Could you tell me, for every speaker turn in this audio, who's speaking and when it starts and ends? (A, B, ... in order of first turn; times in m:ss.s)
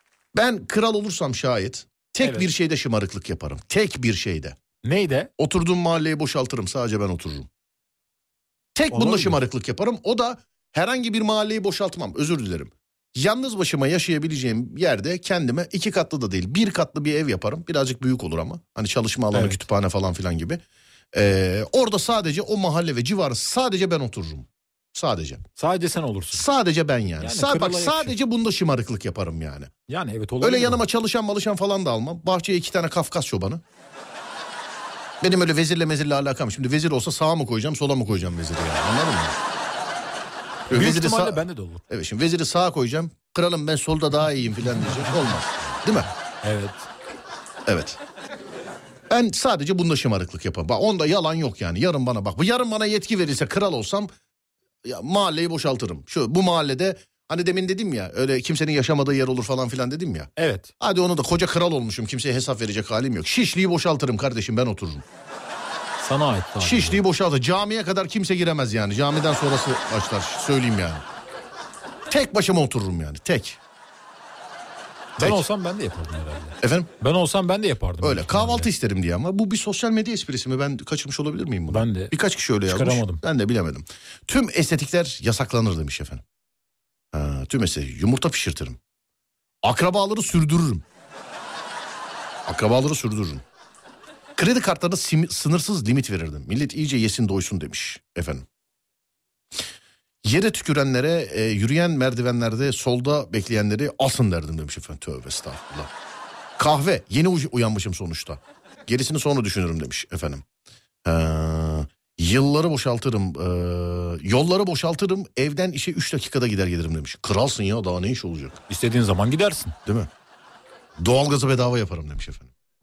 0:00.3-0:04.6 A
0:02.2-0:02.5 B
0:04.8-0:05.3 B
0:05.4-0:07.5 A
0:08.7-0:20.6 A
0:08.9-0:09.4 B
0:19.3-0:19.6 B
0:21.1-0:25.4 A
0:25.6-0:26.4 B
0:26.3-0:29.7 A
0:27.2-0:28.2 B
0:29.9-0:30.8 B
0:30.4-0:33.6 A
0:35.2-0:39.4 A
0:40.7-0:46.1 A
0:40.7-0:41.8 B
0:46.4-0:46.9 B
0:47.7-0:48.0 A
0:49.1-0:54.1 A
0:54.8-1:05.0 A
1:00.4-1:00.7 B
1:06.0-1:07.0 B
1:06.6-1:11.0 A
1:12.1-1:13.6 A
1:15.2-1:15.4 A
1:15.2-1:18.7 B
1:16.6-1:16.9 A
1:18.0-1:26.2 A
1:21.7-1:22.1 B
1:22.6-1:23.2 B
1:27.1-1:28.8 A
1:29.6-1:30.8 A
1:32.5-1:33.4 A
1:34.4-1:38.4 A
1:40.2-1:45.9 A
1:46.6-1:50.4 A
1:51.0-1:58.6 A
1:58.7-1:59.8 B
2:01.0-2:02.5 A